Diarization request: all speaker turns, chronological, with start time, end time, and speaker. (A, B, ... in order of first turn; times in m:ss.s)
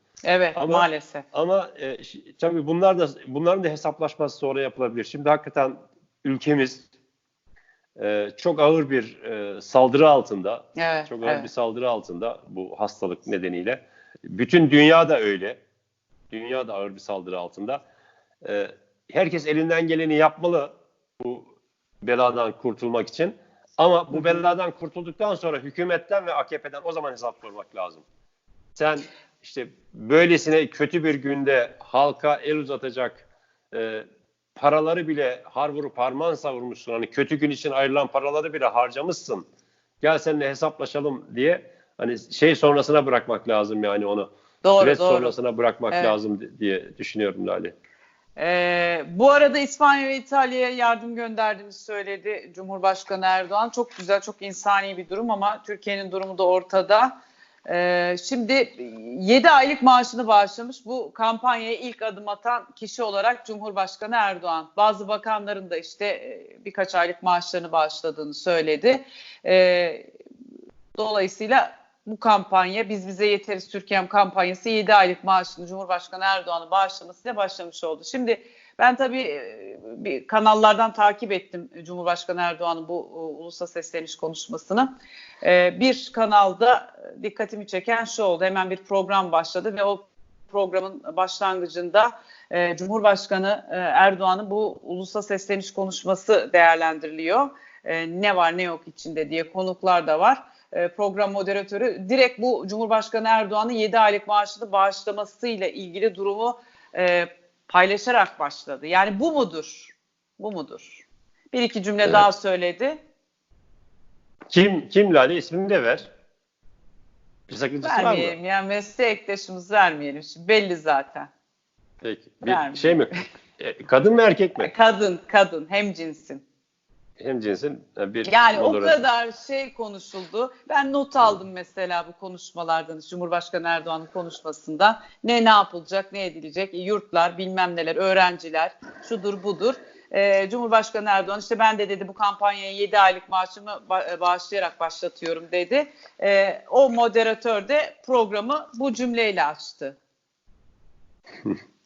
0:00.2-0:01.2 A
0:00.6-0:06.9 B
0:08.0-0:15.6 B
0:10.8-0:11.5 A
0:16.3-0:17.8 B
0:18.4-0:21.5 B
0:22.0-0:28.0 B
0:24.1-0:24.4 A
0:28.8-0:39.4 B
0:40.0-0:47.8 B
0:44.6-0:45.3 A
0:48.4-1:10.1 A
1:11.0-1:53.0 A
1:54.5-1:56.1 B
1:57.5-1:58.4 B
1:57.8-2:01.3 A
2:02.0-2:04.7 B
2:02.4-2:03.1 A
2:04.6-2:06.4 A
2:07.2-2:09.0 B
2:08.2-2:30.0 A